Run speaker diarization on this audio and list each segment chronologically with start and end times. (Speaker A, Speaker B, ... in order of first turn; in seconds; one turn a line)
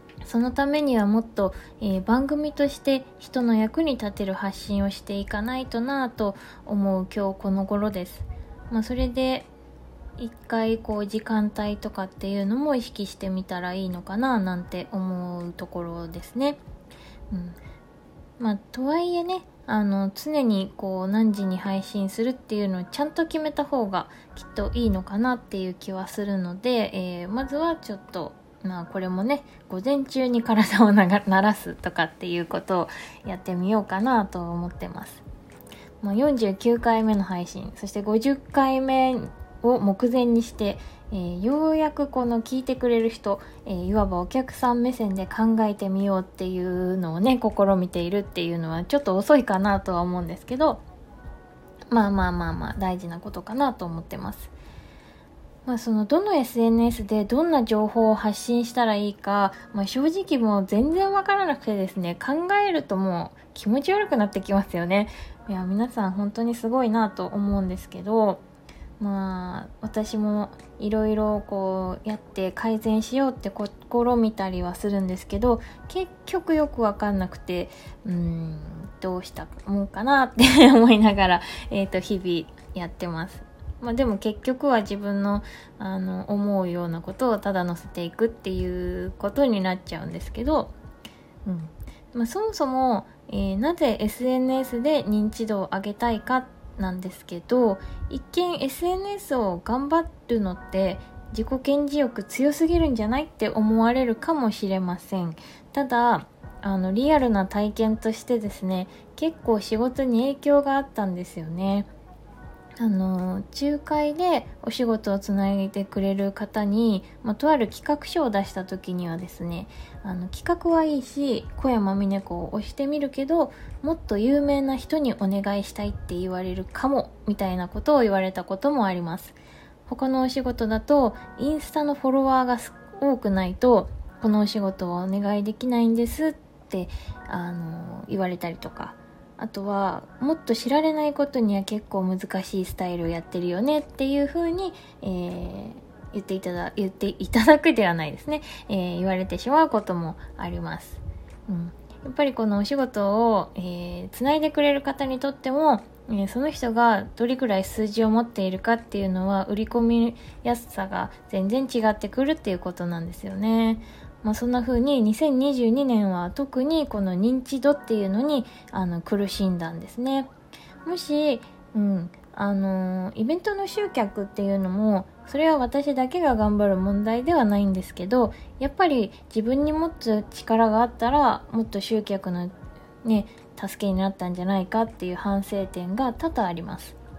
Speaker A: 0.2-9.5
Speaker A: 10.2-16.6
Speaker A: 17.3-17.6
Speaker A: 18.4-35.2
Speaker A: 36.0-50.8
Speaker A: 51.9-54.5
Speaker A: 55.7-68.4
Speaker A: 69.0-90.7
Speaker A: 91.5-111.9
Speaker A: 112.8-170.3
Speaker A: 170.8-187.0